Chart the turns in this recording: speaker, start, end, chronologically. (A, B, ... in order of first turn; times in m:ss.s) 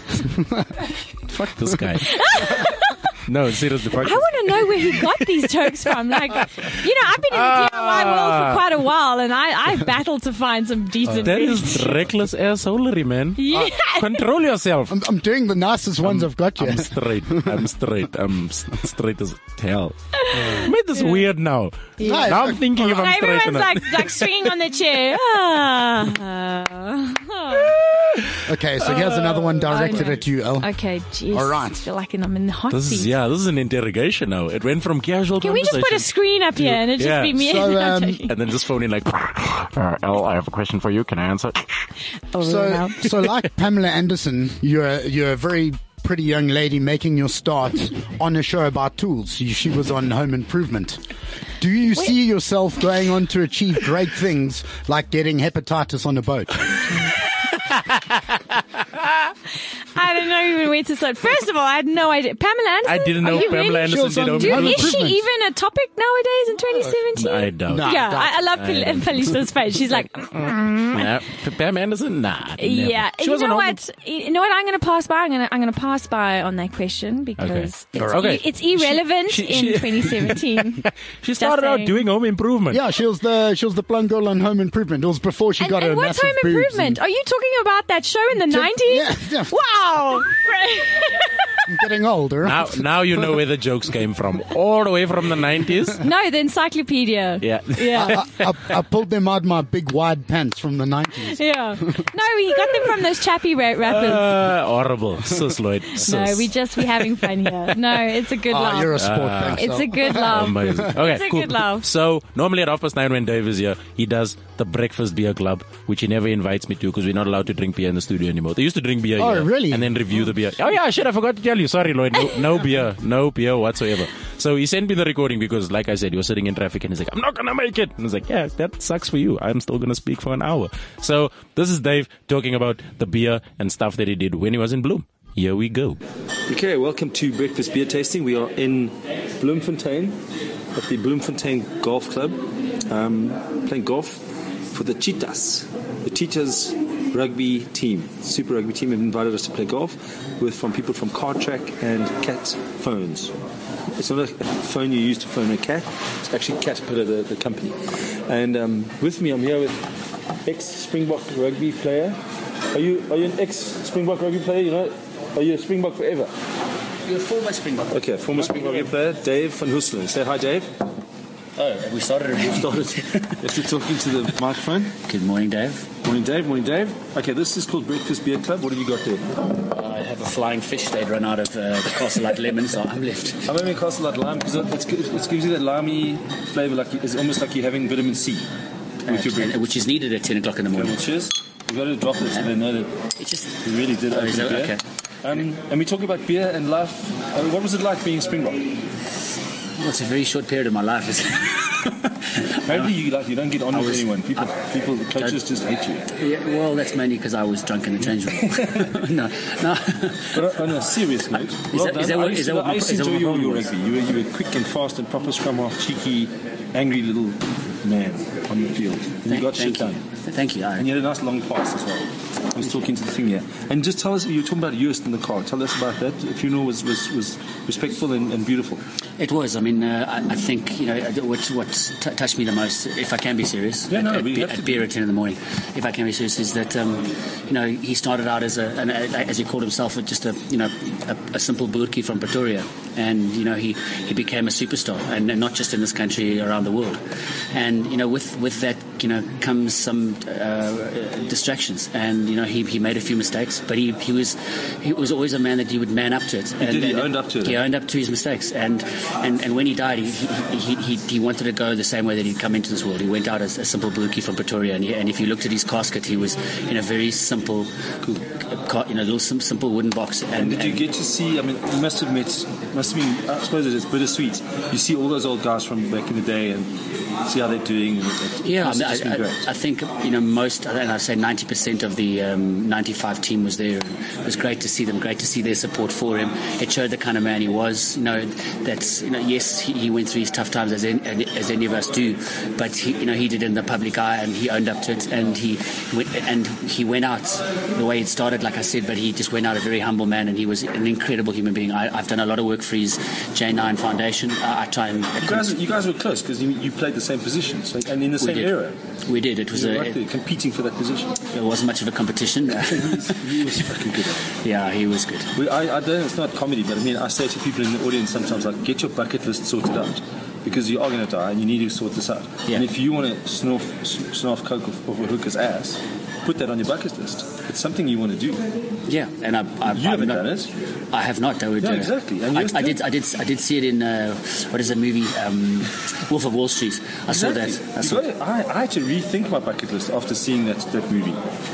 0:00.1-0:00.8 A
0:01.3-0:02.6 B
0:02.0-0:03.1 C
0:03.2-0:08.6 B
0:04.0-0:12.0 C
0:11.1-0:11.3 A
0:11.2-0:15.0 B
0:13.4-0:14.2 C
0:14.9-0:17.7 A
0:16.0-0:24.5 B
0:20.1-0:21.1 C
0:20.3-0:20.7 A
0:22.0-0:27.8 C
0:22.0-0:22.9 A
0:27.5-0:28.3 B
0:28.4-0:30.7 A
0:28.9-0:29.2 C
0:29.7-0:33.1 C
0:31.3-0:31.9 A
0:32.7-0:37.7 B
0:35.4-0:38.3 C
0:37.4-0:38.2 A
0:38.3-0:41.9 B
0:42.3-0:43.1 C
0:42.4-0:51.0 A
0:51.6-0:57.0 A
0:57.6-0:58.6 B
0:59.9-1:11.1 C
1:02.8-1:05.0 B
1:03.2-1:05.2 A
1:07.2-1:09.5 B
1:07.7-1:08.5 A
1:10.3-1:13.8 B
1:12.6-1:20.9 C
1:17.4-1:22.8 B
1:18.0-1:18.4 A
1:21.4-1:22.0 C
1:22.7-1:27.0 A
1:25.6-1:31.7 C
1:28.5-1:29.6 A
1:31.7-1:33.4 A
1:32.4-1:36.0 B
1:36.0-1:38.2 C
1:37.4-1:38.7 B
1:38.0-1:42.1 A
1:41.3-1:44.3 C
1:43.8-1:47.3 B
1:46.0-1:51.9 C
1:48.5-1:50.8 A
1:49.0-2:16.0 B
1:59.2-1:59.9 A
2:16.5-2:20.2 D
2:20.7-2:33.4 D
2:34.0-2:39.9 D
2:40.4-2:42.2 D
2:42.7-2:46.3 D
2:47.1-2:48.9 E
2:47.9-2:50.8 D
2:51.6-2:53.5 E
2:53.4-2:55.0 D
2:55.1-2:55.9 E
2:56.0-2:59.3 D
2:59.7-3:03.4 E
3:03.5-3:08.5 D
3:09.1-3:09.7 D
3:09.1-3:11.0 E
3:10.7-3:12.9 D
3:13.2-3:14.8 E
3:13.6-3:18.8 D
3:19.8-3:22.9 E
3:22.6-3:26.1 D
3:23.7-3:24.5 E
3:26.1-3:30.6 E
3:28.5-3:28.9 D
3:30.3-3:40.0 D
3:31.6-3:33.7 E
3:39.3-3:40.9 E
3:40.8-3:48.8 D
3:49.2-4:30.8 E
3:53.9-3:54.9 D
4:16.6-4:17.6 D
4:30.3-4:39.5 D
4:38.4-5:05.5 E
5:05.2-5:08.8 D
5:08.2-5:08.5 E
5:09.1-5:10.0 E
5:09.5-5:11.2 D
5:11.3-5:13.7 E
5:12.6-5:14.3 D
5:14.3-5:15.3 E
5:15.4-5:28.5 D
5:28.9-5:30.3 E
5:29.7-5:30.5 D
5:30.9-5:38.0 E
5:31.6-5:32.8 D
5:37.1-5:41.2 D